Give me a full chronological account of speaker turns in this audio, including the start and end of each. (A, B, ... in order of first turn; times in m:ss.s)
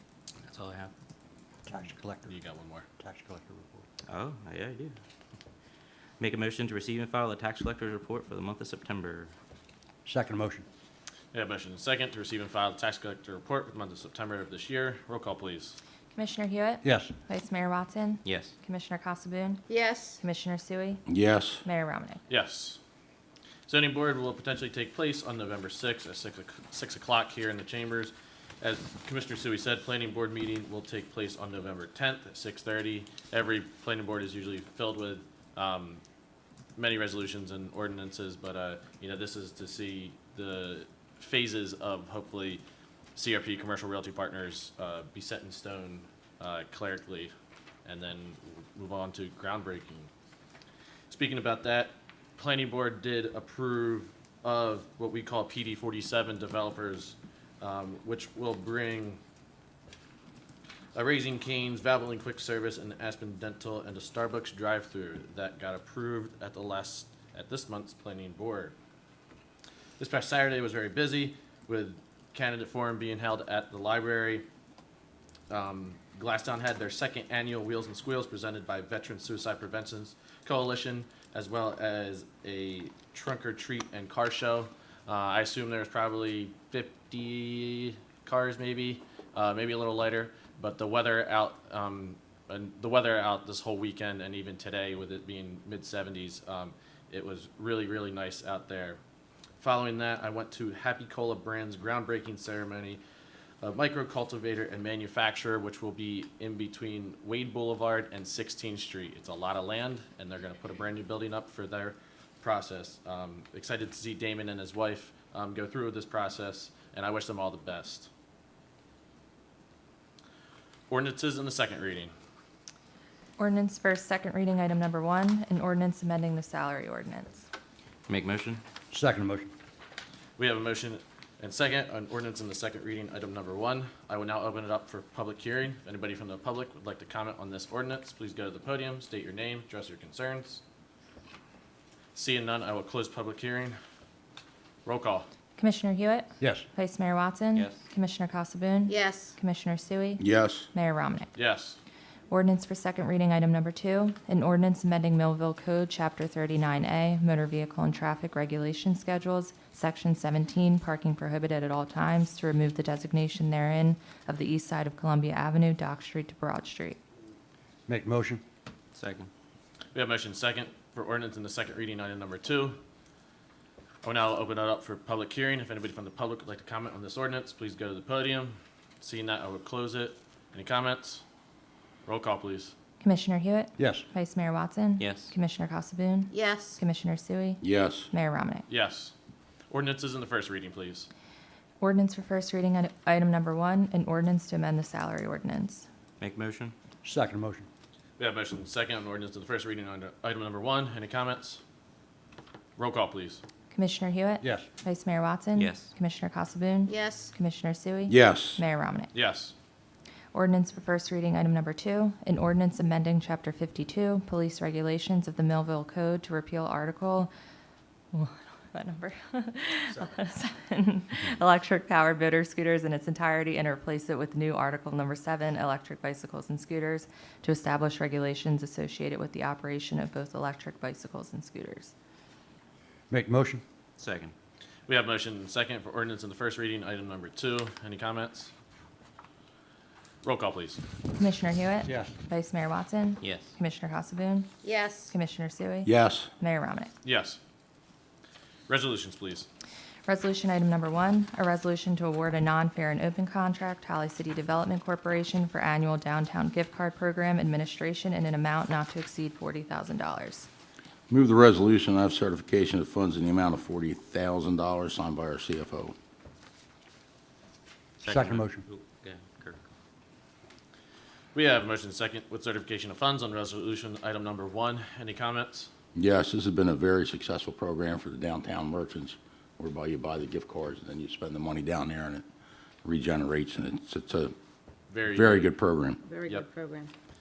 0:00.5-0:00.9 A
0:01.7-0:02.4 B
0:02.3-0:02.8 C
0:03.0-0:03.9 B
0:04.1-0:05.0 A
0:06.2-0:09.3 A
0:10.0-0:10.7 B
0:11.3-0:15.8 C
0:16.1-0:21.0 D
0:16.8-0:17.1 B
0:18.2-0:18.5 A
0:19.7-0:20.2 E
0:21.1-0:21.6 F
0:21.6-0:22.2 D
0:22.3-0:22.8 C
0:23.7-0:36.0 C
0:36.8-0:42.6 C
0:43.1-0:47.3 C
0:47.8-0:50.1 C
0:51.1-0:59.2 C
1:00.9-1:08.7 C
1:10.0-1:14.4 C
1:15.5-1:39.0 C
1:39.6-1:43.0 C
1:43.6-1:58.1 C
2:00.9-2:02.1 C
2:03.4-2:07.4 D
2:08.1-2:08.6 A
2:08.9-2:09.5 B
2:10.4-2:20.6 C
2:22.1-2:23.8 C
2:24.8-2:25.3 C
2:25.6-2:31.3 D
2:26.4-2:26.7 B
2:27.5-2:27.9 A
2:28.9-2:29.4 E
2:30.2-2:30.7 F
2:31.3-2:31.8 C
2:32.3-2:47.0 D
2:47.9-2:48.4 B
2:48.9-2:49.3 A
2:49.9-2:52.8 C
2:54.0-3:01.2 C
3:02.1-3:02.7 C
3:03.0-3:08.7 D
3:03.8-3:04.1 B
3:05.0-3:05.3 A
3:06.3-3:06.8 E
3:07.6-3:08.1 F
3:08.7-3:09.1 C
3:09.7-3:11.1 C
3:11.8-3:15.9 D
3:16.2-3:16.8 A
3:17.0-3:17.7 B
3:18.2-3:21.6 C
3:22.8-3:23.4 C
3:23.7-3:29.1 D
3:24.4-3:24.7 B
3:25.6-3:25.9 A
3:26.9-3:27.3 E
3:28.1-3:28.6 F
3:29.1-3:29.5 C
3:30.3-3:37.3 D
3:38.1-3:51.9 D
3:53.1-3:53.6 B
3:54.0-3:54.3 A
3:54.9-3:58.5 C
4:00.2-4:00.8 C
4:01.2-4:04.5 D
4:01.8-4:02.1 B
4:03.2-4:03.5 A
4:04.6-4:05.1 E
4:05.1-4:06.9 D
4:05.8-4:06.3 F
4:07.0-4:07.4 C
4:08.7-4:09.5 C
4:10.1-4:20.5 D
4:21.1-4:25.9 F
4:28.0-4:28.7 B
4:28.0-4:29.6 A
4:31.4-4:35.7 C
4:35.9-4:42.2 F
4:42.8-4:44.4 F
4:44.9-4:45.5 C
4:45.0-4:46.0 F
4:46.0-4:46.9 E